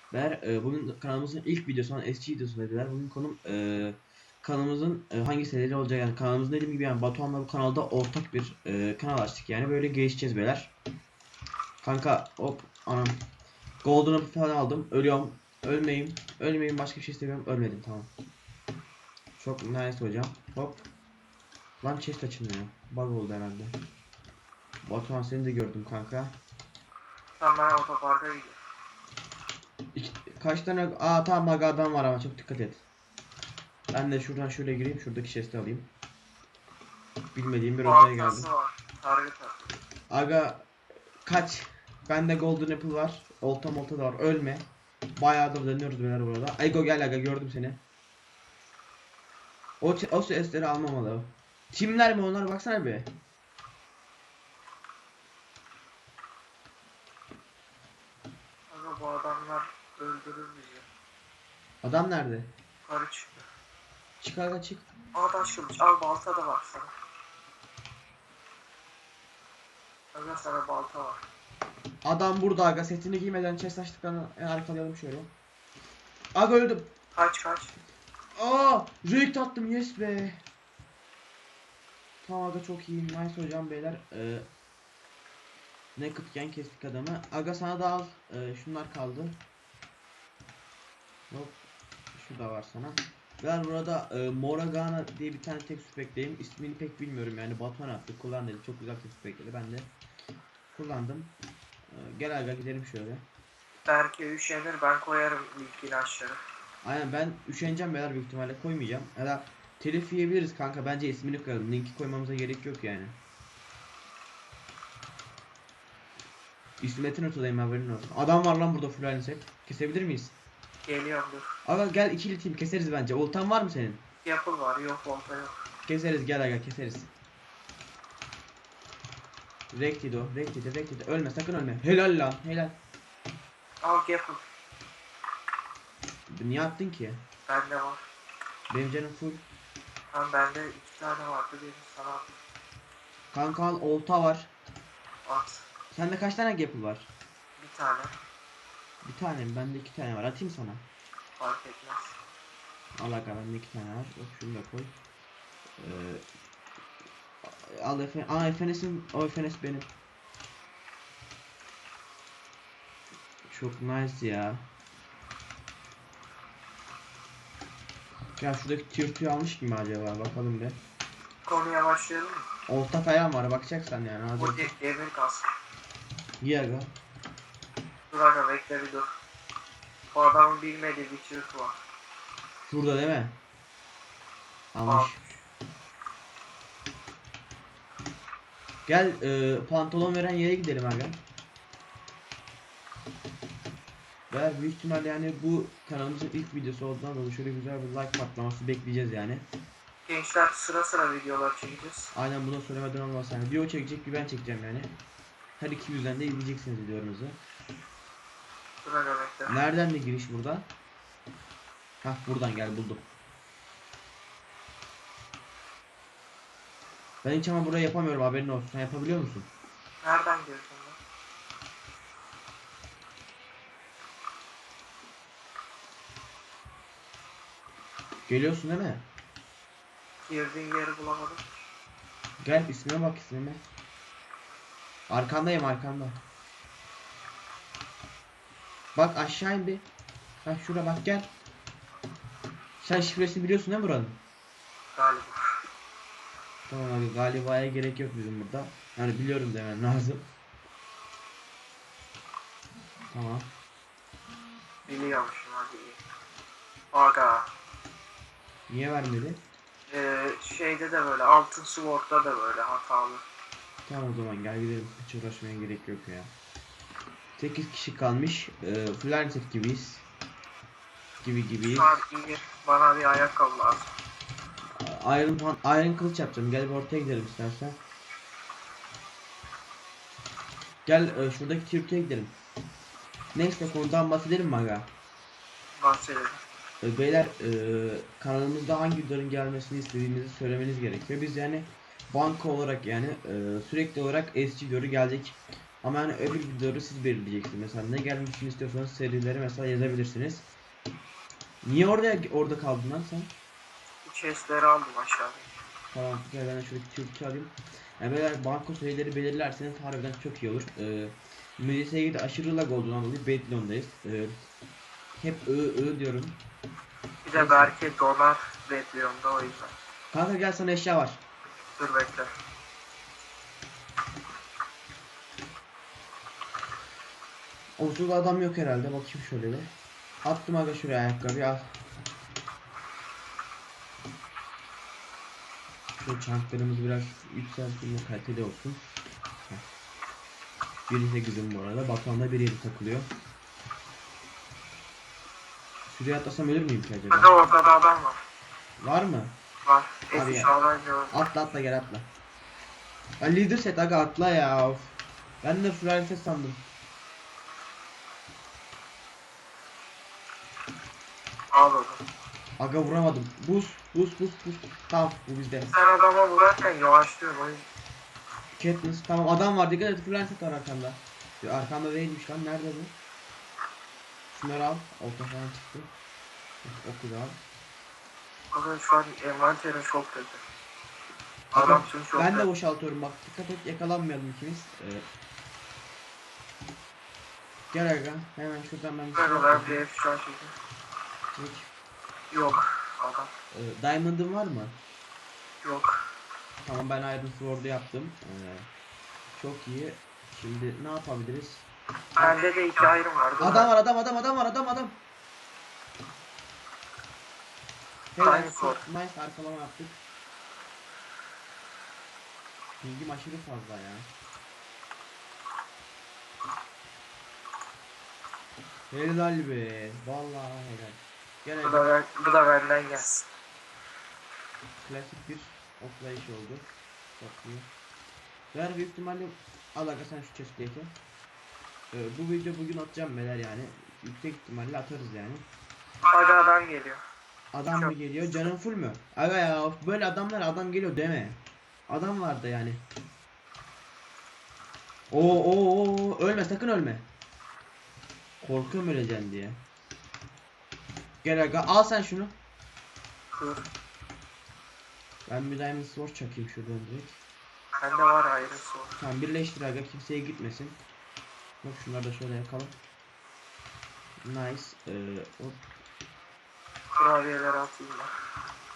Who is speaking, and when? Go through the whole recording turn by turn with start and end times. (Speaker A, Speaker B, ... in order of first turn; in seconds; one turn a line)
Speaker A: 0.1-10.7
Speaker A: 11.8-13.2
Speaker A: 13.8-18.1
Speaker A: 19.4-20.9
Speaker A: 21.8-23.8
Speaker A: 24.8-26.4
Speaker B: 27.4-28.6
Speaker A: 29.9-32.8
Speaker A: 33.9-35.9
Speaker A: 37.3-38.5
Speaker B: 37.8-39.7
Speaker A: 40.1-40.7
Speaker A: 41.2-47.8
Speaker A: 49.8-53.1
Speaker B: 58.7-60.9
Speaker A: 61.8-62.5
Speaker B: 62.9-63.4
Speaker A: 64.2-64.9
Speaker B: 65.1-66.9
Speaker B: 70.1-71.2
Speaker A: 72.0-75.3
Speaker A: 76.3-76.9
Speaker B: 77.1-77.8
Speaker A: 78.3-80.4
Speaker A: 82.2-84.5
Speaker A: 86.0-89.4
Speaker A: 91.3-91.6
Speaker A: 92.1-99.9
Speaker A: 100.7-101.3
Speaker A: 101.9-103.2
Speaker B: 103.9-106.4
Speaker A: 106.8-113.2
Speaker A: 116.8-120.3
Speaker B: 120.8-121.5
Speaker A: 121.6-124.0
Speaker B: 124.2-125.6
Speaker A: 125.9-127.1
Speaker A: 129.7-132.8
Speaker B: 133.8-134.4
Speaker A: 136.3-137.2
Speaker B: 137.5-138.0
Speaker A: 138.7-139.4
Speaker B: 140.1-142.3
Speaker A: 143.3-144.5
Speaker B: 145.2-145.7
Speaker A: 145.9-147.1
Speaker B: 147.6-148.2
Speaker A: 149.0-150.8
Speaker B: 151.4-152.2
Speaker A: 153.0-154.9
Speaker A: 155.8-156.2
Speaker A: 157.4-159.9
Speaker A: 163.5-164.7
Speaker A: 168.4-170.8
Speaker B: 171.4-172.5
Speaker A: 172.7-174.7
Speaker B: 174.4-175.5
Speaker A: 176.4-176.9
Speaker B: 178.1-179.1
Speaker B: 180.1-181.8
Speaker A: 182.6-183.4
Speaker A: 184.7-185.2
Speaker B: 184.8-185.2
Speaker A: 188.8-191.2
Speaker A: 194.3-199.5
Speaker B: 200.1-202.1
Speaker A: 202.1-204.9
Speaker A: 205.6-207.4
Speaker B: 208.8-209.6
Speaker A: 209.5-210.7
Speaker A: 212.0-213.1
Speaker A: 217.2-219.5
Speaker B: 220.0-221.0
Speaker A: 228.3-229.1
Speaker B: 230.2-231.4
Speaker A: 232.4-233.6
Speaker A: 235.1-236.2
Speaker A: 238.9-239.8
Speaker A: 240.4-241.3
Speaker A: 242.8-244.2
Speaker B: 244.9-245.4
Speaker A: 246.7-250.3
Speaker A: 253.1-253.5
Speaker B: 254.8-256.0
Speaker B: 256.9-257.5
Speaker A: 258.7-259.4
Speaker B: 259.9-263.2
Speaker A: 263.9-266.3
Speaker A: 267.4-270.1
Speaker A: 271.2-272.0
Speaker B: 271.6-273.9
Speaker A: 274.8-277.8
Speaker A: 280.9-282.4
Speaker A: 283.3-284.9
Speaker B: 285.8-286.4
Speaker A: 286.8-300.5
Speaker A: 301.6-303.3
Speaker B: 304.0-305.5
Speaker A: 305.9-314.4
Speaker A: 315.2-316.4
Speaker B: 317.2-319.7
Speaker A: 317.3-317.7
Speaker A: 320.1-321.2
Speaker B: 321.8-322.3
Speaker A: 327.8-329.7
Speaker A: 330.2-331.8
Speaker A: 336.0-338.9
Speaker A: 340.9-343.1
Speaker A: 345.9-347.3
Speaker B: 347.1-348.2
Speaker A: 348.8-349.4
Speaker B: 349.6-351.1
Speaker A: 350.1-350.5
Speaker A: 351.1-352.1
Speaker A: 353.2-356.7
Speaker B: 361.5-362.0
Speaker A: 362.6-365.7
Speaker B: 365.7-367.6
Speaker A: 368.5-373.0
Speaker A: 374.3-375.9
Speaker A: 376.6-377.4
Speaker B: 378.5-380.4
Speaker B: 381.5-382.5
Speaker A: 381.5-385.1
Speaker A: 387.7-389.8
Speaker B: 389.1-390.6
Speaker A: 391.3-391.7
Speaker B: 392.3-393.3
Speaker A: 393.5-394.8
Speaker B: 395.6-396.0
Speaker A: 396.6-398.7
Speaker A: 399.3-401.7
Speaker B: 402.1-403.7
Speaker A: 403.4-405.0
Speaker A: 408.1-410.0
Speaker B: 408.2-408.8
Speaker A: 412.8-414.1
Speaker A: 418.9-421.9
Speaker B: 421.6-423.3
Speaker A: 424.8-427.7
Speaker A: 428.5-430.9
Speaker A: 431.9-435.5
Speaker B: 436.0-437.0
Speaker A: 437.5-442.8
Speaker A: 445.1-447.1
Speaker A: 448.4-449.6
Speaker A: 451.2-452.3
Speaker B: 453.3-453.7
Speaker A: 455.3-457.2
Speaker B: 457.8-459.0
Speaker A: 459.0-460.8
Speaker A: 461.6-462.8
Speaker A: 464.2-465.6
Speaker B: 466.9-468.1